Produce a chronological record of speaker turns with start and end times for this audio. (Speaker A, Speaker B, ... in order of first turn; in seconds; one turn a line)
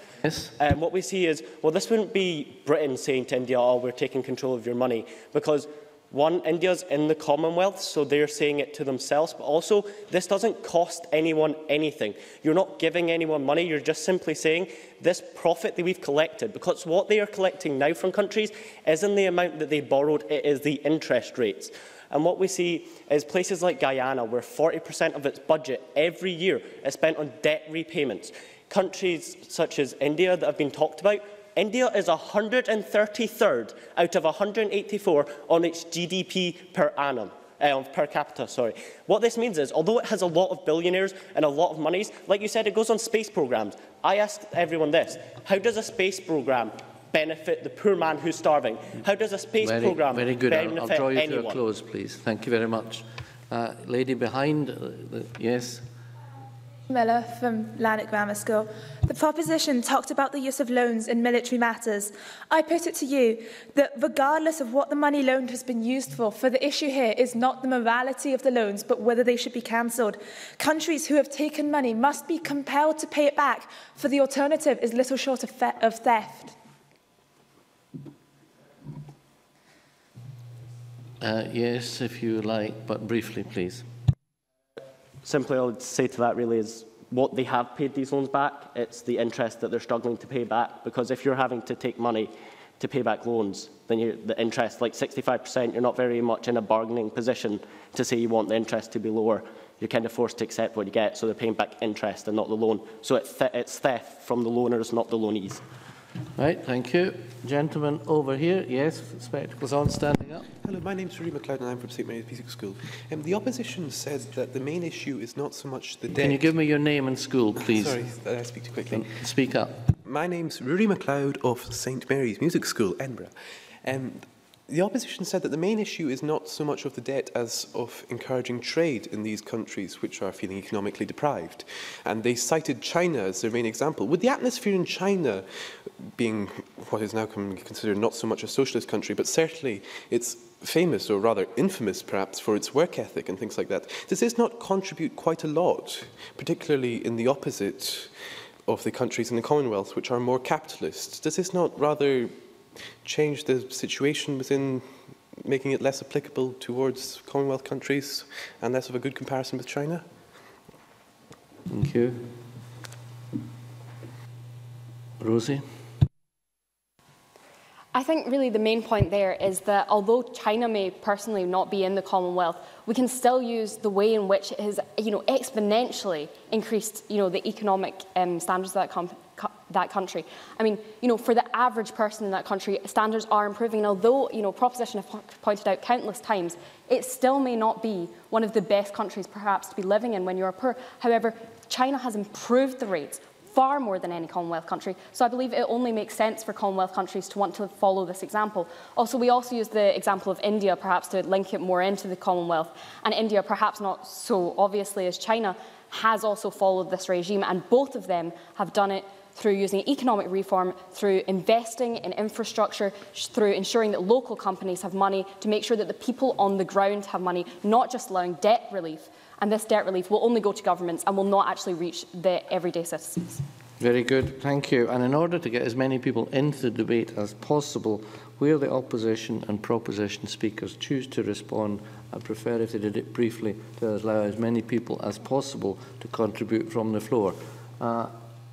Speaker A: 0.2-0.5
Speaker B: 0.6-51.6
Speaker A: 49.6-55.9
Speaker C: 56.9-76.6
Speaker A: 81.2-83.8
Speaker B: 85.2-105.6
Speaker A: 106.4-110.5
Speaker D: 110.6-116.5
Speaker A: 116.2-118.2
Speaker D: 117.6-119.2
Speaker A: 118.9-119.8
Speaker D: 120.0-152.4
Speaker D: 152.9-160.1
Speaker A: 161.7-162.3
Speaker A: 165.2-165.6
Speaker E: 167.9-223.4
Speaker A: 223.8-238.2